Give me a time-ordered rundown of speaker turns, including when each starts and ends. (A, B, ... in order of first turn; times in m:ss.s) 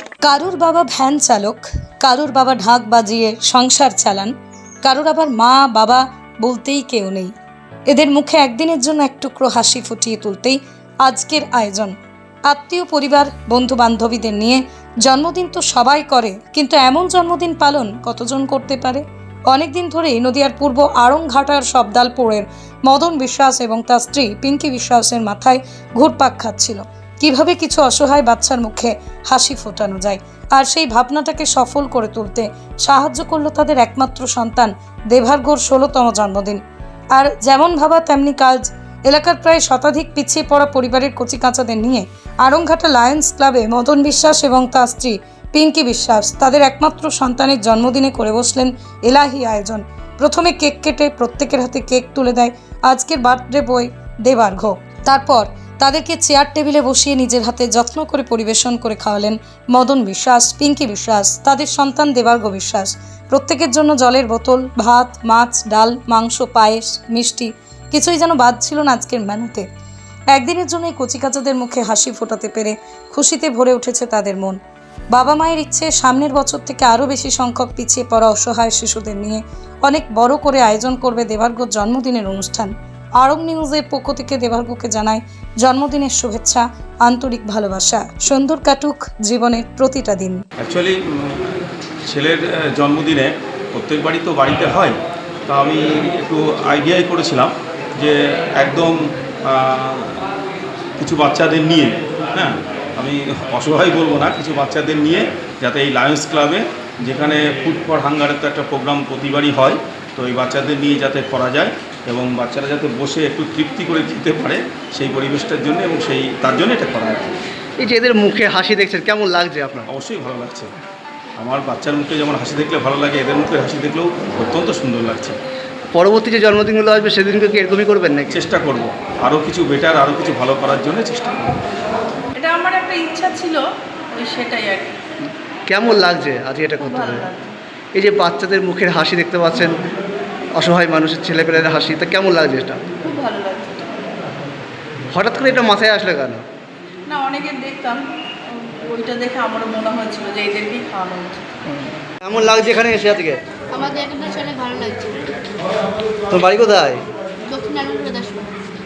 0:00.2-0:04.3 A
0:04.8-0:07.3 A
0:07.9-0:11.9 A
0:12.5-0:36.6 A
0:37.1-1:09.6 A
1:10.3-1:14.6 A
1:15.1-1:30.4 A
1:30.6-1:40.3 B
1:41.0-1:57.4 B
1:57.8-1:59.9 C
1:59.9-2:00.7 B
2:01.4-2:05.4 B
2:05.9-2:08.4 C
2:08.3-2:11.6 B
2:12.4-2:15.0 D
2:15.7-2:17.2 C
2:16.8-2:17.5 D
2:17.9-2:19.8 C
2:20.5-2:22.8 C
2:23.0-2:24.1 D
2:25.1-2:26.4 C
2:27.1-2:31.5 D
2:32.2-2:33.6 C
2:33.7-2:35.1 E
2:36.3-2:37.0 C
2:37.5-2:38.5 E